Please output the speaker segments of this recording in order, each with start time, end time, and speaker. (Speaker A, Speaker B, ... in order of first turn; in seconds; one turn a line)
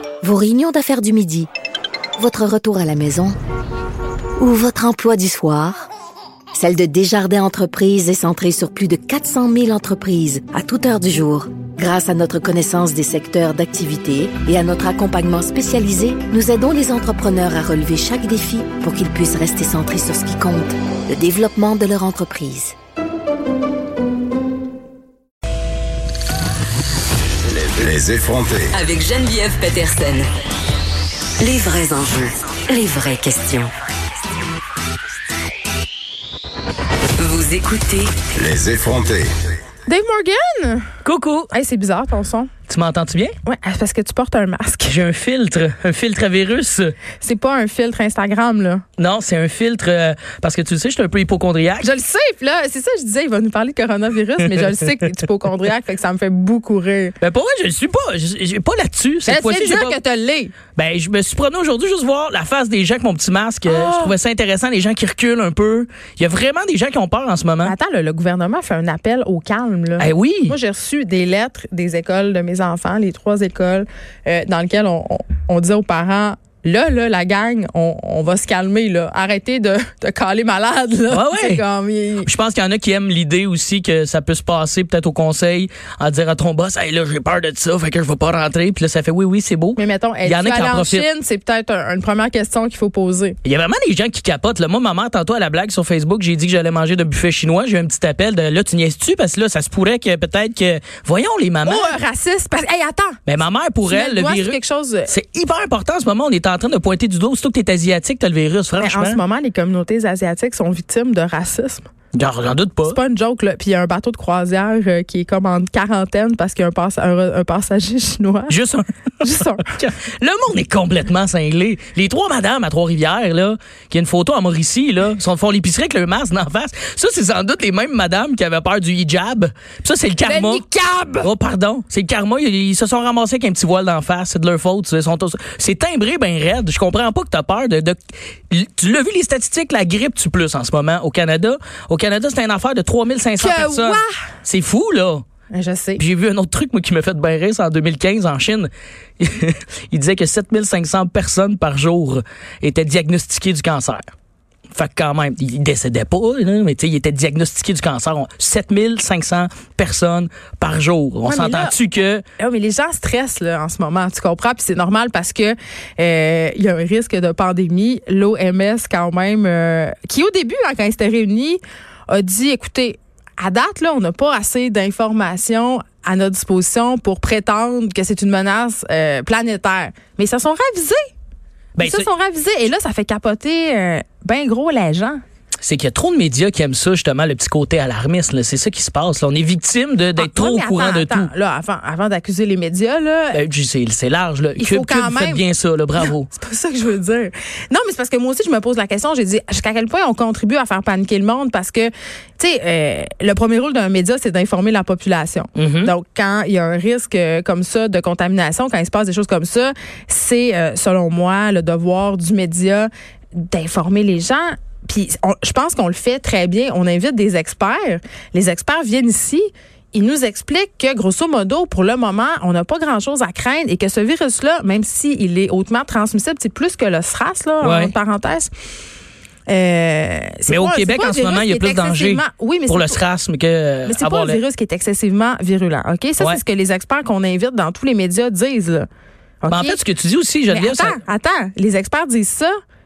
Speaker A: 0.2-1.5
Speaker A: 2.2-3.4
Speaker A: 4.4-5.9
Speaker A: 6.5-22.7
Speaker B: 27.6-28.8
Speaker C: 28.8-30.3
Speaker C: 31.4-33.7
Speaker C: 37.2-38.3
Speaker B: 38.3-39.3
Speaker D: 39.9-40.9
Speaker E: 41.0-41.5
Speaker D: 41.5-42.5
Speaker E: 42.7-43.4
Speaker D: 43.5-45.0
Speaker E: 44.8-46.9
Speaker D: 47.2-48.8
Speaker E: 49.0-51.9
Speaker D: 51.8-57.1
Speaker E: 57.2-60.0
Speaker D: 59.2-60.5
Speaker E: 60.8-67.7
Speaker D: 63.6-64.1
Speaker D: 67.6-82.3
Speaker E: 70.0-70.5
Speaker E: 81.1-81.6
Speaker E: 82.2-91.1
Speaker D: 89.8-93.4
Speaker E: 93.4-102.0
Speaker D: 101.6-103.2
Speaker E: 103.2-109.2
Speaker D: 103.8-105.1
Speaker D: 108.8-111.9
Speaker E: 112.1-113.0
Speaker D: 112.8-118.6
Speaker E: 118.5-130.6
Speaker D: 119.2-119.7
Speaker D: 130.2-131.3
Speaker E: 131.2-137.9
Speaker E: 138.5-145.2
Speaker D: 143.4-144.3
Speaker D: 145.5-146.0
Speaker E: 146.0-154.1
Speaker E: 154.7-162.2
Speaker D: 161.2-161.8
Speaker D: 162.4-181.0
Speaker E: 181.8-182.1
Speaker D: 181.8-185.2
Speaker E: 185.6-191.3
Speaker D: 190.2-193.4
Speaker E: 193.3-196.3
Speaker D: 194.6-195.4
Speaker D: 196.0-228.5
Speaker E: 205.6-205.9
Speaker E: 227.6-227.9
Speaker D: 229.5-233.0
Speaker E: 230.5-234.4
Speaker D: 233.8-238.9
Speaker D: 239.4-239.8
Speaker E: 239.5-241.0
Speaker D: 240.5-242.5